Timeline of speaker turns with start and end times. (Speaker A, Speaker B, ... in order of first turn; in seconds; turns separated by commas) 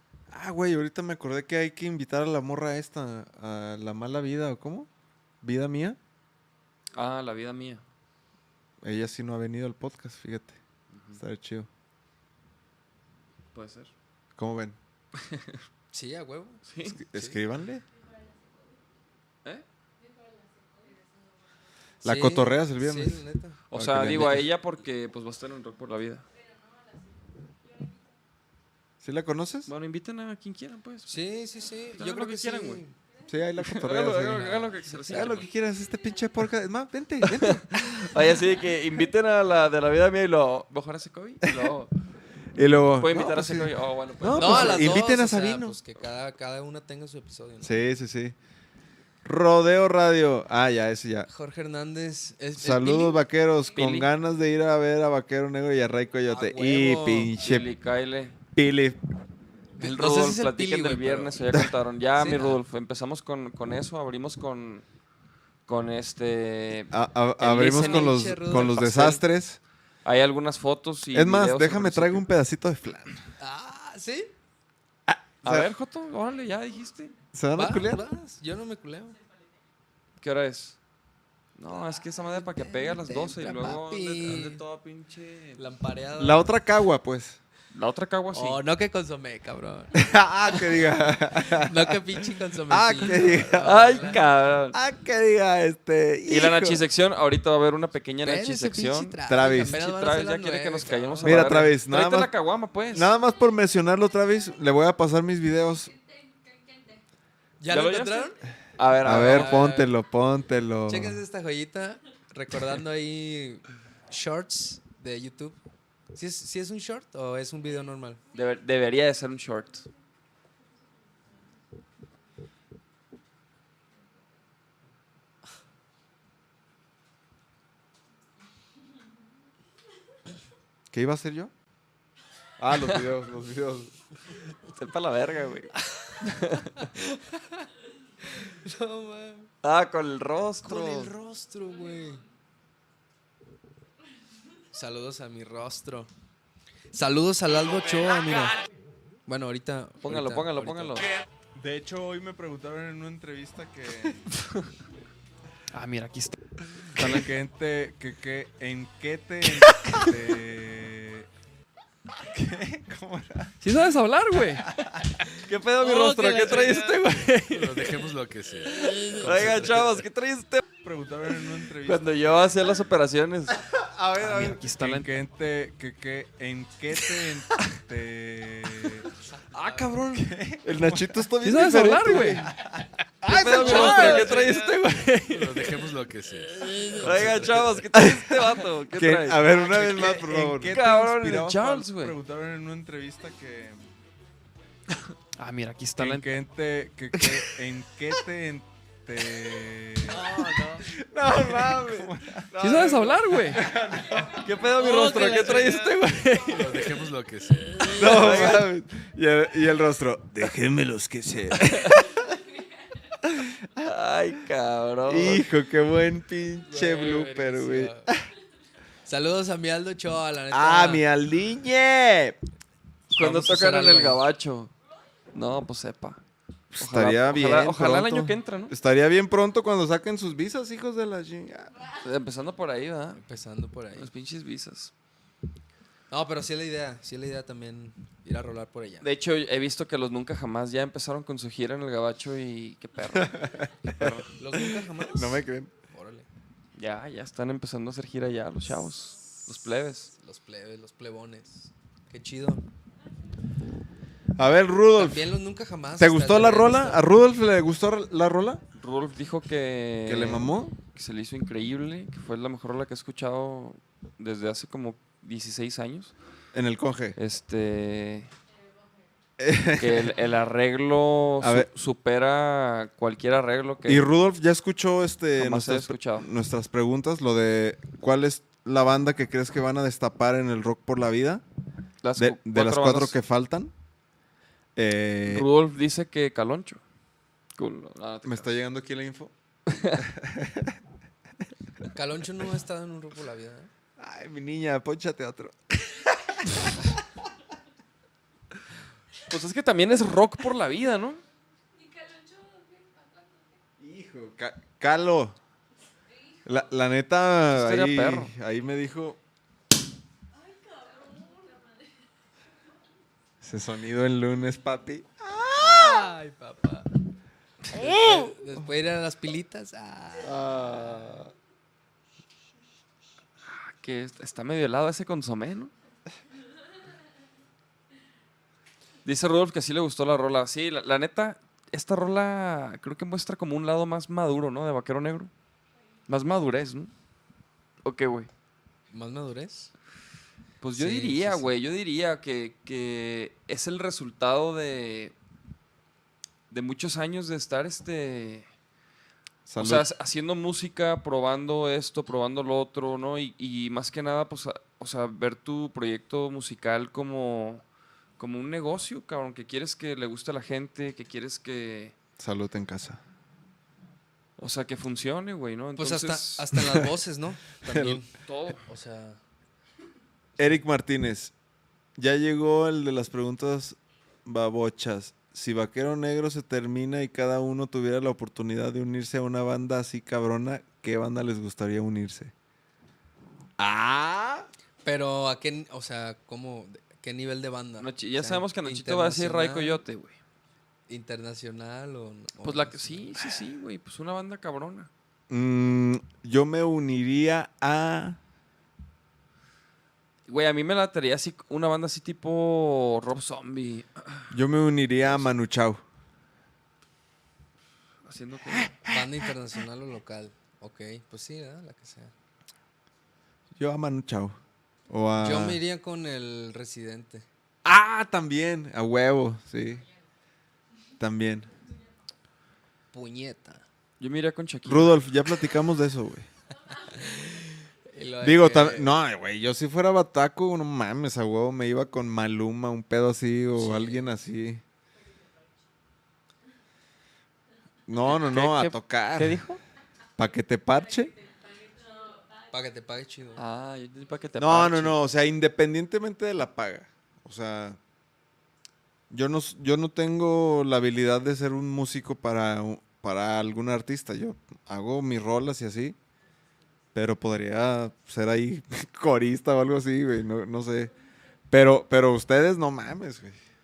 Speaker A: 0.3-4.9, Speaker A: 5.4-6.0, Speaker B: 6.9-7.8, Speaker A: 8.8-10.6, Speaker B: 10.9-11.2, Speaker A: 11.1-11.7, Speaker B: 13.5-13.9, Speaker A: 14.3-14.8, Speaker B: 15.2-15.6, Speaker C: 15.9-16.6, Speaker B: 16.6-17.0, Speaker A: 16.8-17.8, Speaker C: 17.1-17.4, Speaker D: 17.9-18.8, Speaker D: 20.0-21.5, Speaker A: 22.0-24.5, Speaker C: 22.0-23.6, Speaker B: 23.7-26.2, Speaker D: 26.3-28.1, Speaker A: 29.0-29.7, Speaker B: 29.7-31.2, Speaker C: 31.1-32.9, Speaker B: 31.9-32.8, Speaker A: 33.3-38.0, Speaker B: 33.6-35.5, Speaker C: 34.9-35.3, Speaker B: 37.3-41.9, Speaker A: 42.5-45.8, Speaker B: 42.8-45.0, Speaker C: 44.3-47.8, Speaker A: 47.6-48.3, Speaker A: 49.2-51.3, Speaker C: 51.3-53.2, Speaker A: 52.5-57.7, Speaker B: 53.7-54.1, Speaker C: 56.3-57.3, Speaker B: 57.4-58.4, Speaker A: 58.5-59.0, Speaker C: 59.8-62.6, Speaker B: 59.8-64.8, Speaker B: 65.7-69.2, Speaker A: 66.9-69.6, Speaker C: 67.6-69.2, Speaker B: 70.0-72.3, Speaker A: 71.1-73.2, Speaker C: 73.4-74.3, Speaker A: 75.1-75.7, Speaker B: 75.4-77.1, Speaker A: 77.3-78.1, Speaker C: 77.5-79.2, Speaker B: 80.2-80.8, Speaker B: 81.6-85.6, Speaker C: 82.3-84.6, Speaker C: 85.6-86.5, Speaker A: 86.2-87.4, Speaker B: 87.7-88.6, Speaker C: 88.3-94.2, Speaker A: 89.9-92.0, Speaker A: 92.7-94.1, Speaker B: 93.6-94.8, Speaker A: 94.7-96.9, Speaker B: 96.3-103.1, Speaker C: 98.2-101.7, Speaker A: 99.2-99.8, Speaker A: 101.2-102.3, Speaker A: 102.9-105.9, Speaker D: 105.8-107.0, Speaker C: 107.6-108.4, Speaker B: 107.7-109.7, Speaker C: 109.0-109.9, Speaker A: 109.0-111.2, Speaker C: 110.9-115.6, Speaker C: 116.1-118.2, Speaker B: 118.3-119.8, Speaker A: 130.9-131.5, Speaker A: 132.6-133.9, Speaker B: 134.7-136.9, Speaker C: 136.8-137.7, Speaker C: 138.4-139.5, Speaker B: 139.6-141.1, Speaker C: 140.6-142.2, Speaker C: 144.7-146.1, Speaker C: 146.9-148.6, Speaker C: 149.2-151.1, Speaker B: 150.0-151.1, Speaker A: 151.5-154.2, Speaker B: 155.7-156.4, Speaker B: 156.9-157.3, Speaker A: 156.9-161.3, Speaker A: 162.2-163.7, Speaker B: 163.6-164.7, Speaker A: 164.5-165.2, Speaker B: 165.4-167.9, Speaker A: 165.8-167.0, Speaker E: 167.5-169.9, Speaker B: 168.7-170.6, Speaker A: 170.8-172.7, Speaker B: 171.8-173.6, Speaker A: 173.5-179.1, Speaker B: 174.2-175.1, Speaker B: 179.5-180.3, Speaker A: 180.1-184.6, Speaker B: 181.4-182.5, Speaker B: 183.2-185.7, Speaker C: 183.5-184.5, Speaker E: 183.7-184.1, Speaker E: 185.3-187.8, Speaker B: 187.0-192.2, Speaker A: 187.9-193.8, Speaker B: 195.4-196.3, Speaker A: 196.0-204.5, Speaker B: 197.2-197.4, Speaker B: 200.1-200.8, Speaker B: 201.4-202.0, Speaker B: 202.5-203.7, Speaker B: 204.4-207.0, Speaker C: 204.9-205.7, Speaker E: 204.9-205.4, Speaker E: 206.5-207.9, Speaker B: 207.8-208.7, Speaker A: 207.9-212.2, Speaker B: 211.6-212.0, Speaker A: 213.3-213.9, Speaker B: 213.8-215.4, Speaker A: 215.1-218.2, Speaker C: 216.7-218.1, Speaker C: 219.0-221.0, Speaker A: 220.5-222.4, Speaker C: 223.1-224.2, Speaker B: 223.1-224.7, Speaker B: 225.3-226.2, Speaker A: 226.7-231.7, Speaker B: 226.8-228.7, Speaker B: 232.0-233.2, Speaker C: 233.1-234.1, Speaker B: 233.9-234.9, Speaker C: 236.1-239.1, Speaker B: 239.0-244.3, Speaker A: 243.1-245.7, Speaker C: 244.4-246.3, Speaker B: 246.7-250.1, Speaker C: 250.1-252.6, Speaker A: 254.3-255.3, Speaker C: 254.9-257.0, Speaker A: 256.0-258.6, Speaker B: 258.8-266.1, Speaker A: 260.1-260.7, Speaker A: 266.5-267.2, Speaker B: 267.2-268.3, Speaker D: 268.5-268.9, Speaker A: 269.4-270.1, Speaker B: 269.8-274.1, Speaker A: 271.4-271.7, Speaker A: 273.9-281.4, Speaker B: 275.4-276.3, Speaker B: 282.0-283.1, Speaker A: 282.1-283.7, Speaker A: 284.8-285.5, Speaker B: 285.2-286.8, Speaker B: 287.6-288.5, Speaker A: 288.2-289.3, Speaker B: 289.7-290.0, Speaker A: 289.9-290.8, Speaker C: 291.9-293.7, Speaker A: 294.0-296.9, Speaker B: 299.3-301.2, Speaker D: 301.7-303.6, Speaker A: 303.8-305.4, Speaker A: 306.4-309.2, Speaker B: 307.5-308.3, Speaker D: 310.3-311.9, Speaker A: 313.4-316.1, Speaker C: 315.5-316.9, Speaker A: 317.7-318.6, Speaker C: 317.7-321.0, Speaker A: 320.2-321.3, Speaker B: 323.5-325.7, Speaker B: 329.0-335.3, Speaker B: 336.1-336.9, Speaker B: 337.8-338.3, Speaker C: 338.9-339.7, Speaker B: 340.6-345.1, Speaker C: 340.7-341.5, Speaker B: 346.5-348.4, Speaker A: 349.4-349.9, Speaker B: 349.6-357.6, Speaker B: 358.2-361.9, Speaker A: 362.2-363.0, Speaker B: 364.4-366.5, Speaker C: 365.8-369.2, Speaker A: 366.5-366.9, Speaker A: 367.7-368.0, Speaker B: 368.2-368.6, Speaker A: 370.4-371.3, Speaker A: 372.0-382.3, Speaker A: 383.6-384.5, Speaker C: 384.8-389.8, Speaker B: 387.8-390.2, Speaker C: 390.9-393.1, Speaker B: 392.4-394.9, Speaker A: 395.3-398.2, Speaker B: 400.3-404.3, Speaker A: 404.3-405.8, Speaker B: 408.1-408.8, Speaker A: 408.5-409.1, Speaker C: 408.9-412.1, Speaker A: 413.6-414.4, Speaker A: 414.9-415.6, Speaker C: 415.2-417.2, Speaker A: 417.6-419.8, Speaker A: 421.0-421.5, Speaker C: 422.9-423.6, Speaker B: 424.0-425.0, Speaker A: 424.6-426.3, Speaker C: 427.0-428.9, Speaker A: 428.2-434.6, Speaker C: 433.6-434.1, Speaker A: 437.9-439.4, Speaker B: 438.2-439.6, Speaker A: 440.2-441.1, Speaker D: 441.0-442.6, Speaker C: 442.5-443.4, Speaker B: 443.3-445.0, Speaker A: 444.4-447.8, Speaker A: 449.1-455.9, Speaker A: 456.9-460.9, Speaker A: 461.5-463.4